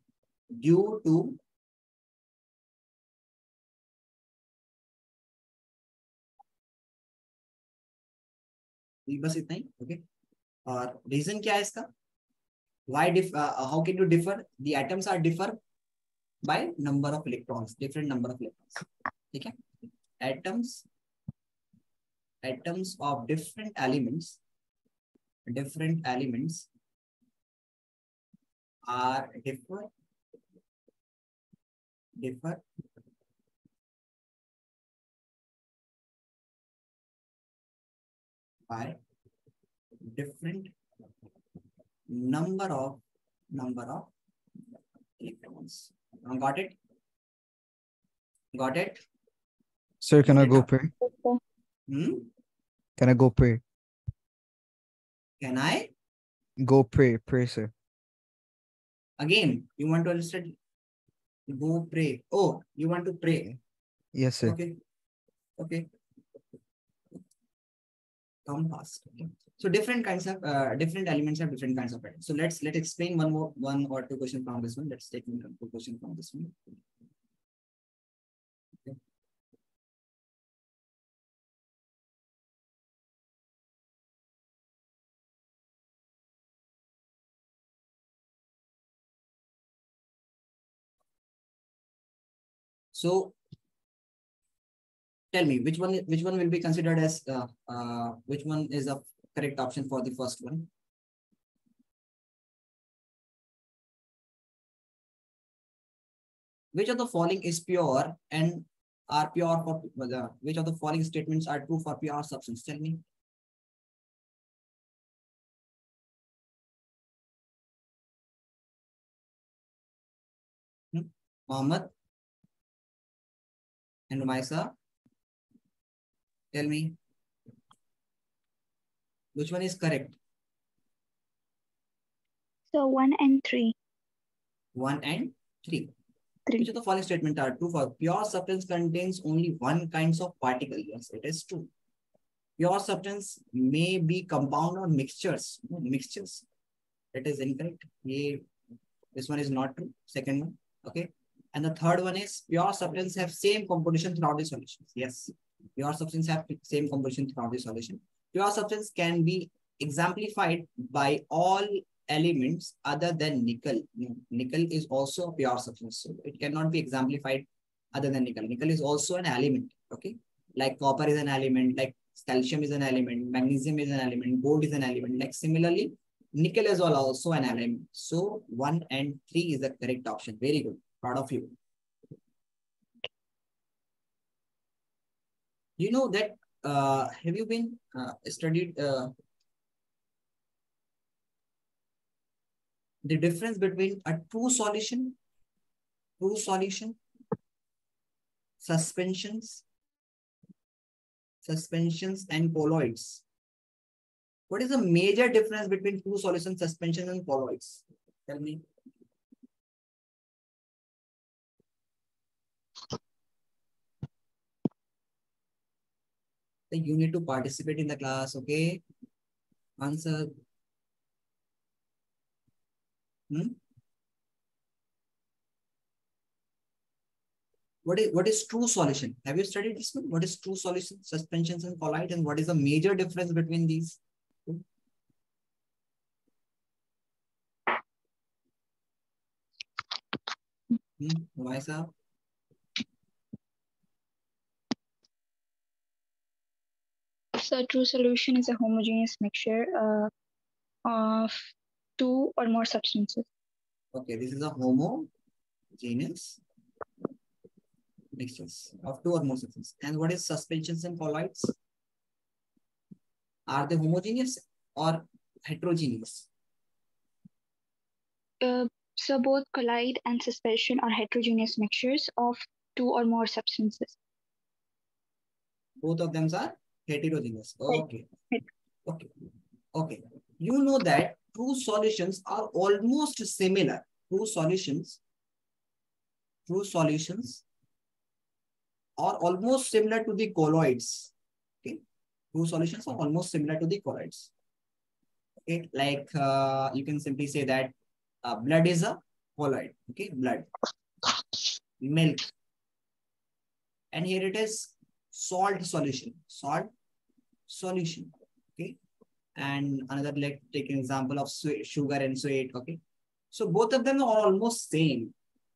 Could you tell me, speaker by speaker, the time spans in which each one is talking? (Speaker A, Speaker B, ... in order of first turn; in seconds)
Speaker A: 0.5-1.4, 9.1-10.0, 10.7-11.9, 12.9-15.6, 16.4-19.6, 20.2-20.9, 22.4-24.4, 25.5-26.7, 28.9-29.9, 32.2-32.6, 38.7-39.0, 40.0-40.7, 42.1-43.0, 43.5-44.1, 45.2-46.8, 48.5-49.0, 50.3-50.7, 51.9-52.3, 55.4-55.9, 59.2-60.5, 61.5-63.6, 64.4-64.8, 65.6-65.9, 68.5-76.6, 92.9-93.4, 95.3-100.7, 106.7-113.0, 120.9-121.9, 124.1-124.7, 126.5-127.0, 129.3-130.2, 134.8-135.9, 136.6-141.7, 142.6-146.4, 147.1-148.4, 149.2-181.6, 185.8-189.1, 193.0-195.2, 196.2-197.0, 198.6-199.6, 201.4-203.2, 204.5-208.6, 216.7-218.8, 219.8-220.4, 223.3-223.6, 227.8-234.6, 241.0-241.9, 253.9-255.1, 255.8-256.4, 258.1-261.5, 263.5-266.3, 275.8-278.1, 279.7-285.0, 286.5-287.4, 289.0-291.1, 292.3-294.3, 295.4-300.5, 301.8-302.3, 303.9-306.7, 307.5-308.8, 309.4-312.8, 313.3-315.1
Speaker B: 50.0-50.9, 53.0-53.6, 56.6-57.7, 64.2-64.6
Speaker C: 51.0-51.4, 132.7-133.8, 247.3-250.1, 250.8-253.3, 268.4-274.0